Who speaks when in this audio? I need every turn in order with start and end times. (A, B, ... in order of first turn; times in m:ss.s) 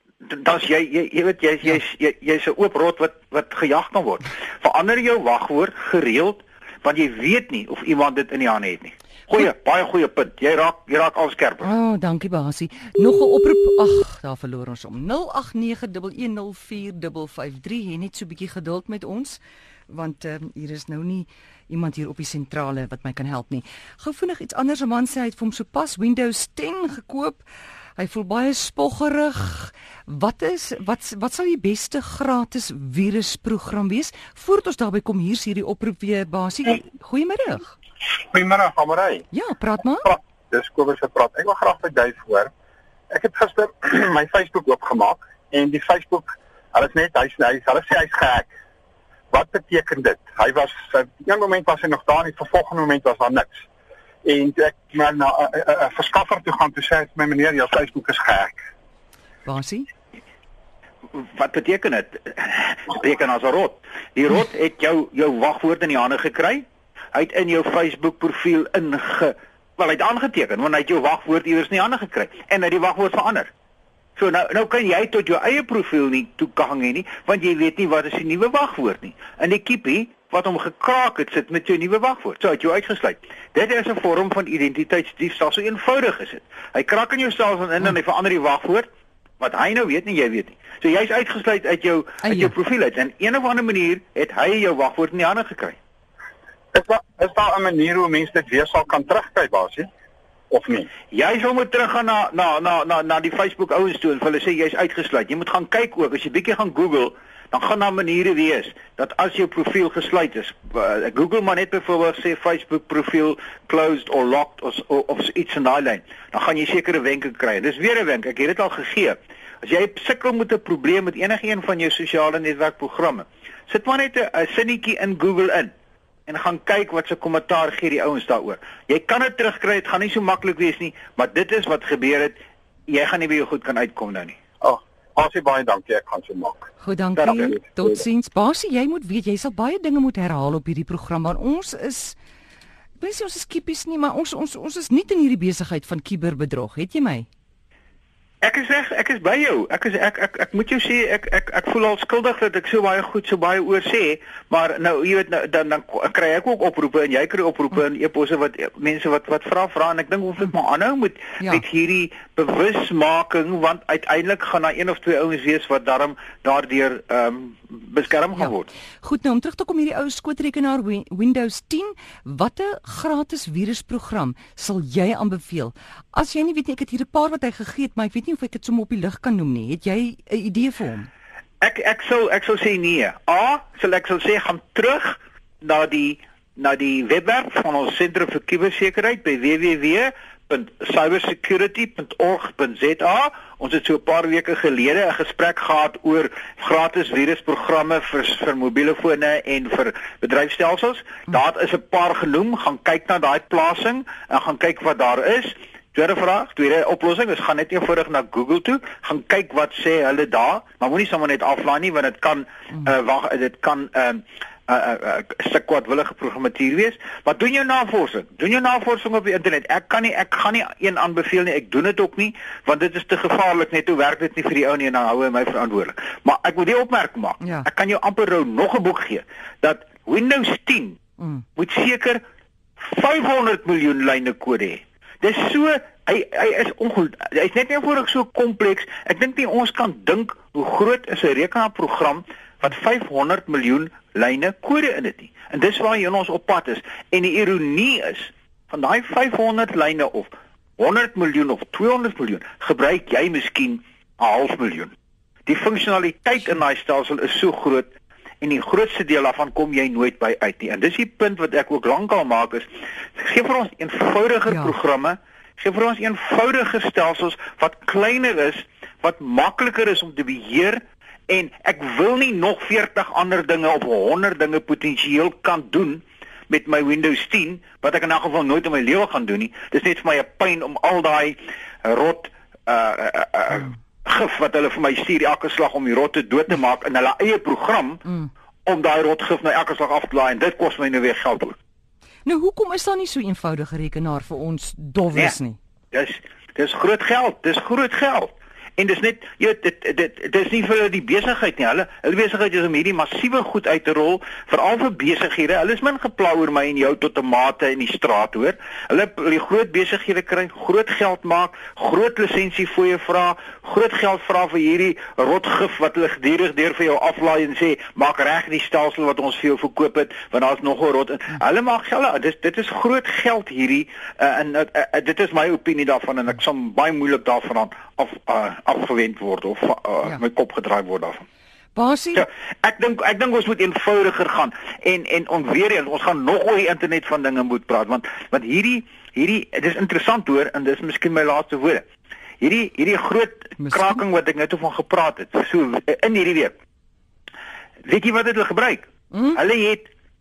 0:00.2-0:11.7 A
0:11.6-0:27.4 B
0:28.0-0:37.8 B
0:38.3-0:39.3 C
0:39.3-0:40.1 B
0:40.0-0:42.5 C
0:43.1-0:48.5 C
0:49.3-0:53.6 C
0:54.2-0:58.6 C
0:59.4-0:59.9 B
1:01.1-1:13.5 A
1:14.2-1:28.9 A
1:29.4-1:35.8 A
1:32.2-1:32.5 B
1:36.7-1:39.9 C
1:40.5-1:40.9 C
1:41.1-2:05.7 A
2:06.3-2:12.4 A
2:12.9-2:14.4 A
2:14.6-2:16.7 C
2:16.8-2:22.2 B
2:17.2-2:17.6 A
2:17.4-2:18.0 C
2:23.0-2:27.3 B
2:28.4-2:48.7 A
2:49.0-3:01.1 B
3:01.6-3:51.0 A
3:47.4-3:47.7 B
3:51.6-3:52.2 A
3:52.8-4:14.9 A
4:15.5-4:17.9 A
4:18.4-4:51.6 A
4:52.2-4:55.6 B
4:55.9-5:31.2 A
5:31.7-5:32.2 B
5:32.2-5:41.8 A
5:42.4-5:46.5 A
5:47.8-5:49.9 A